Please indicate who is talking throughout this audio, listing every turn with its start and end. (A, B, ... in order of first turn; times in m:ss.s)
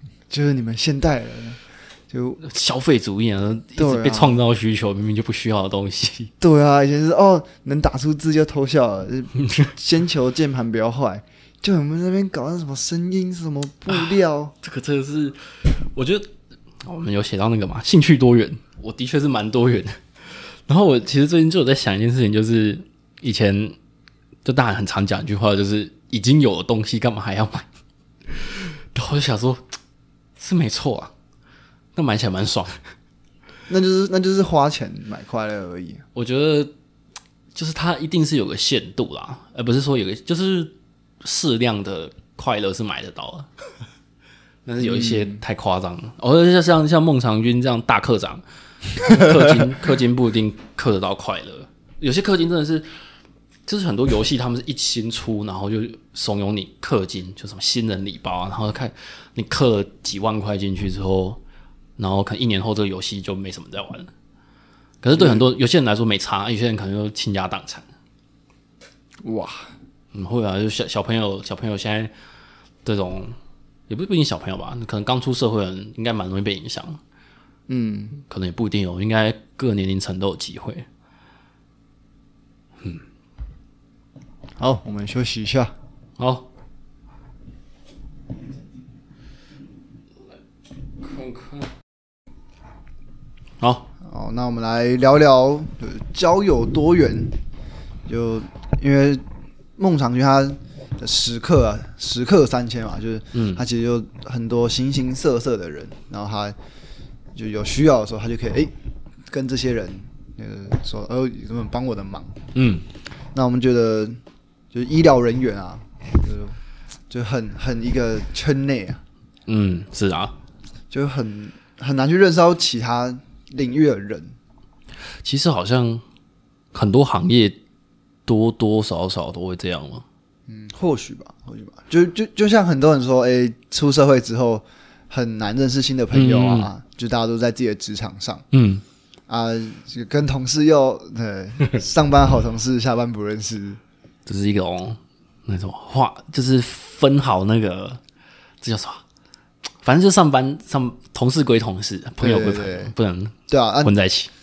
0:00.3-0:02.4 A
0:02.4-0:06.3 B
0:03.8-0:04.4 A
0:06.4-0:14.5 A
0:13.9-0:16.3 B
0:16.8-0:23.8 B
0:24.4-0:27.6 B
0:28.3-0:29.6 B
0:30.4-0:31.1 B
0:31.9-0:32.8 B
0:33.7-0:36.0 A
0:36.1-0:36.7 B
0:37.5-0:43.5 B
0:44.6-0:48.4 B
0:44.8-0:45.4 A
0:48.9-0:52.9 B
0:53.6-1:01.4 B
1:02.0-1:04.1 B
1:05.0-1:07.9 B
1:05.1-1:05.4 A
1:09.2-1:09.7 A
1:10.1-1:12.1 B
1:12.8-1:13.3 B
1:13.9-1:17.0 B
1:17.7-1:18.2 A
1:18.3-1:20.8 B
1:24.6-1:25.7 A
1:26.2-1:26.5 B
1:31.0-1:31.7 B
1:33.6-1:33.9 B
1:34.0-1:37.3 A
1:38.1-1:39.2 A
1:39.8-1:46.6 A
1:43.3-1:43.6 B
1:47.3-1:48.7 A
1:49.3-1:52.4 A
1:52.5-1:52.9 B
1:53.3-1:54.2 A
1:54.7-1:56.6 A
1:57.1-1:59.0 A
1:59.5-2:00.3 B
2:00.9-2:04.4 A
2:05.2-2:06.0 B
2:06.7-2:07.6 B
2:08.2-2:10.0 B
2:10.5-2:18.4 A
2:16.1-2:16.7 B
2:18.5-2:18.8 B
2:19.3-2:23.8 A
2:24.2-2:28.0 B
2:28.6-2:29.0 B
2:29.8-2:34.3 B
2:32.2-2:32.9 A
2:33.5-2:33.9 A